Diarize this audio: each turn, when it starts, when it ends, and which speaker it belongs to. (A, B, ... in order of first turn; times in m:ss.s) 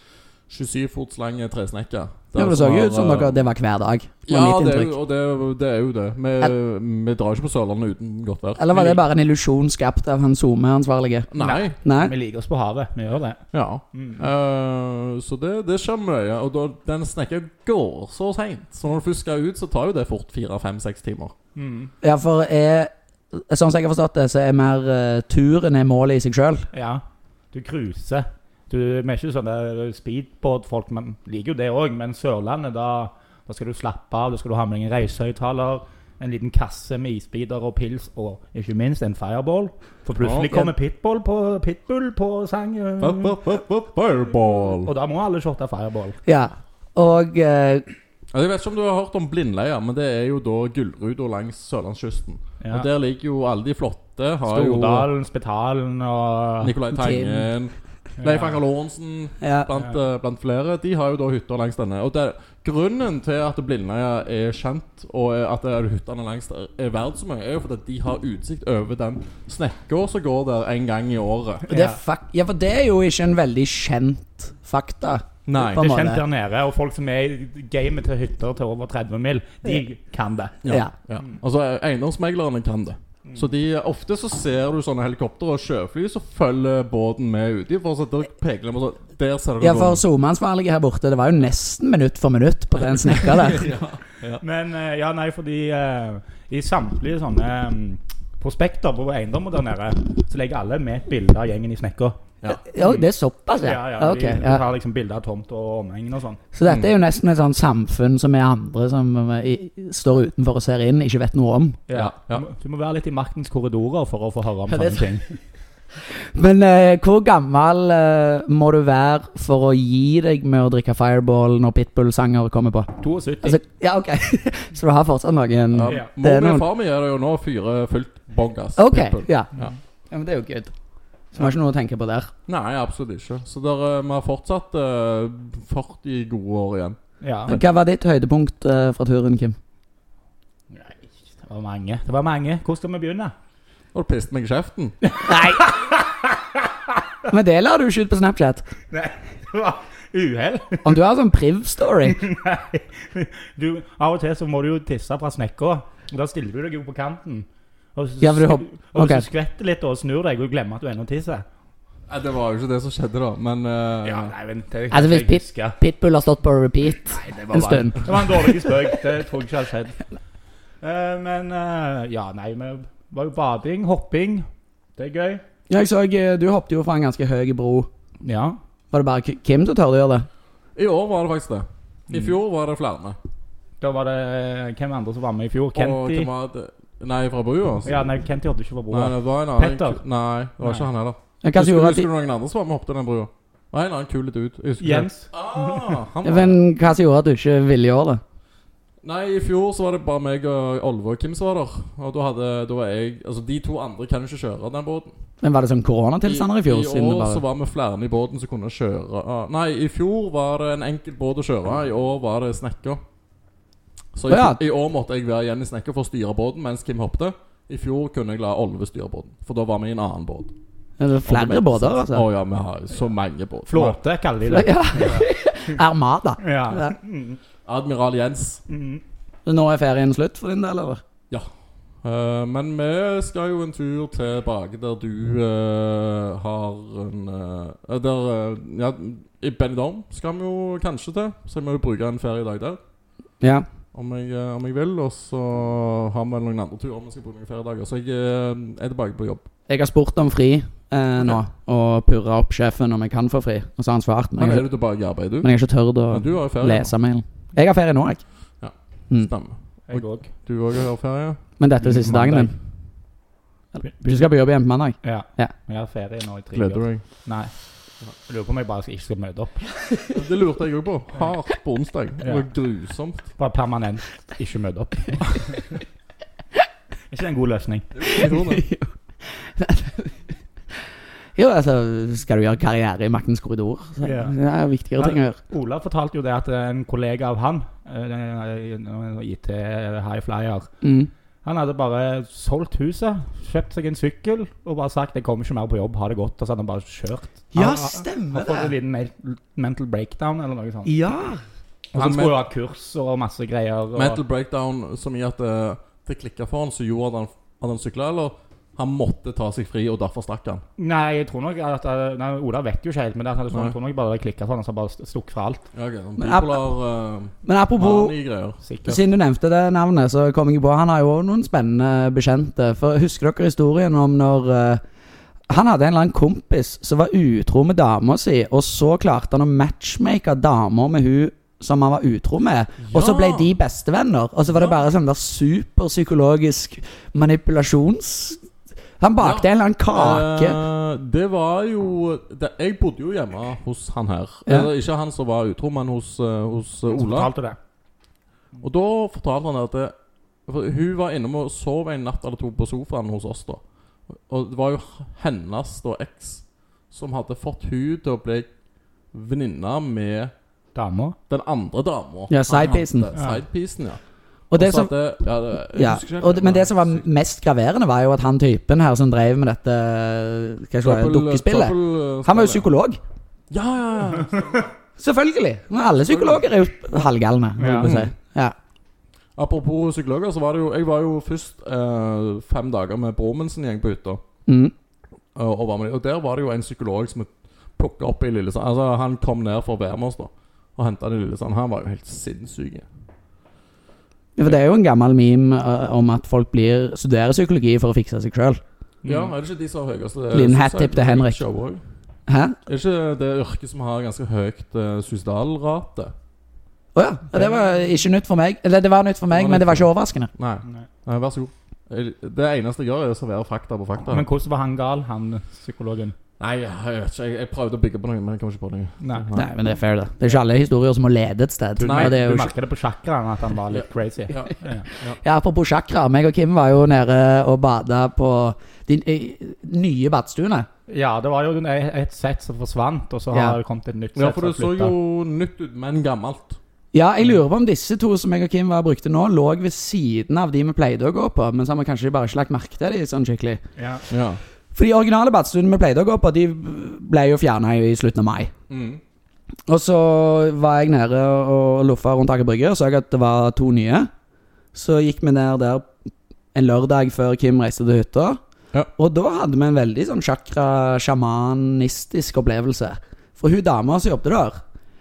0:00.5-0:03.5 A
0:02.4-0:04.9 B
0:04.3-0:09.0 A
0:08.6-0:11.3 B
0:11.3-0:11.8 A
0:11.4-0:14.2 C
0:11.8-0:12.1 B
0:13.5-0:21.3 A
0:21.6-0:21.9 C
0:22.0-0:26.7 B
0:26.7-0:43.4 C
0:40.2-0:40.7 A
0:43.0-0:44.9 A
0:44.7-0:46.2 C
0:46.3-0:47.9 B
0:48.3-0:55.1 A
0:52.6-0:52.9 C
0:54.5-0:56.8 C
0:56.6-1:11.7 A
0:56.9-0:57.5 B
0:58.2-0:58.6 C
0:59.4-0:59.7 B
1:11.7-1:12.0 C
1:11.7-1:16.2 B
1:15.5-1:15.9 A
1:15.7-1:20.6 C
1:20.6-1:30.0 A
1:20.7-1:20.9 B
1:29.6-1:33.7 B
1:33.3-1:34.4 A
1:34.4-1:42.2 C
1:42.5-1:44.6 B
1:43.6-1:46.4 C
1:46.5-1:51.8 B
1:51.9-1:55.4 C
1:51.9-1:52.4 A
1:54.7-1:55.1 B
1:56.1-2:02.9 B
2:03.0-2:03.6 C
2:03.4-2:06.6 B
2:05.7-2:09.7 A
2:08.8-2:09.5 B
2:10.1-2:10.7 B
2:11.3-2:12.3 B
2:12.5-2:17.0 A
2:17.2-2:17.6 C
2:17.5-2:19.6 B
2:20.7-2:23.3 C
2:23.9-2:25.0 A
2:25.1-2:26.6 C
2:25.2-2:25.8 B
2:27.3-2:28.6 B
2:28.9-2:30.9 C
2:30.8-2:32.2 B
2:32.1-2:41.4 C
2:38.2-2:39.3 B
2:42.1-2:44.3 A
2:44.0-2:45.8 C
2:44.9-2:48.9 B
2:47.1-2:50.0 C
2:50.8-2:54.5 C
2:55.0-2:55.4 C
2:55.7-2:57.9 B
2:58.2-2:58.6 C
2:58.9-3:00.3 B
3:00.8-3:03.2 A
3:03.8-3:06.3 C
3:05.8-3:08.1 A
3:07.9-3:10.0 C
3:08.9-3:16.6 A
3:10.6-3:10.9 C
3:11.4-3:12.1 B
3:14.8-3:15.3 C
3:16.2-3:18.2 B
3:19.0-3:25.1 A
3:25.4-3:27.4 B
3:26.2-3:33.0 A
3:34.1-3:40.5 A
3:34.3-3:34.6 B
3:41.0-3:42.2 B
3:41.3-3:44.0 A
3:43.7-3:45.2 C
3:44.5-3:47.0 B
3:46.4-3:47.4 C
3:47.6-3:48.6 A
3:48.7-3:49.0 C
3:49.5-3:51.0 B
3:52.0-4:02.8 A
4:03.4-4:03.7 B
4:03.9-4:09.4 A
4:09.7-4:14.7 B
4:14.4-4:15.5 A
4:15.4-4:18.2 B
4:16.1-4:16.9 A
4:18.6-4:21.4 A
4:19.9-4:20.3 C
4:21.6-4:22.5 B
4:21.8-4:22.5 C
4:23.8-4:25.5 B
4:24.0-4:24.3 C
4:25.0-4:27.5 C
4:26.5-4:27.0 A
4:28.3-4:29.8 C
4:30.1-4:33.3 A
4:32.2-4:32.5 C
4:33.4-4:35.7 C
4:37.1-4:37.9 C
4:38.0-4:38.6 A
4:38.1-4:40.2 B
4:41.4-4:45.4 B
4:44.0-4:44.4 C
4:45.0-4:50.7 C
4:50.8-4:51.1 B
4:51.4-5:00.9 C
4:57.5-4:58.7 B
5:00.8-5:01.4 B
5:01.9-5:02.4 A
5:01.9-5:04.2 C
5:04.0-5:10.6 A
5:10.8-5:15.7 C
5:15.7-5:18.6 A
5:16.2-5:16.6 B
5:17.4-5:18.2 B
5:18.6-5:19.0 C
5:18.8-5:24.8 B
5:25.5-5:38.4 B
5:32.8-5:33.5 A
5:39.0-5:40.6 B
5:39.2-5:47.3 A
5:46.9-5:47.6 C
5:48.6-5:49.9 A
5:50.5-5:58.5 A
5:59.1-6:00.3 A
6:00.8-6:01.2 C
6:01.3-6:04.0 A
6:02.3-6:03.1 B
6:03.2-6:03.4 C
6:04.5-6:07.0 A
6:04.5-6:04.9 B
6:05.7-6:13.0 B
6:10.8-6:12.6 A
6:13.5-6:14.7 A
6:15.0-6:18.6 B
6:16.1-6:16.4 A
6:17.6-6:17.9 C
6:17.8-6:18.1 A
6:19.4-6:24.2 A
6:24.5-6:24.7 B
6:25.4-6:32.9 A
6:34.4-6:38.6 B
6:39.0-6:39.3 C
6:39.0-6:41.8 A
6:40.3-6:41.4 B
6:42.3-6:42.6 B
6:42.7-6:46.1 A
6:47.0-6:50.3 B
6:49.3-6:54.3 A
6:54.1-6:56.2 C
6:56.4-6:59.5 A
6:59.0-6:59.3 C
6:59.4-7:02.5 B
7:01.8-7:04.9 C
7:01.8-7:02.5 A
7:03.7-7:05.2 A
7:05.2-7:10.7 B
7:10.9-7:14.9 C
7:13.3-7:13.6 B
7:14.2-7:16.6 A
7:16.9-7:23.6 B
7:23.8-7:24.0 C
7:24.1-7:24.4 A
7:24.8-7:28.5 B
7:28.7-7:29.0 A
7:29.7-7:34.1 B
7:34.7-7:35.9 B
7:36.5-7:38.4 B
7:39.0-7:44.6 B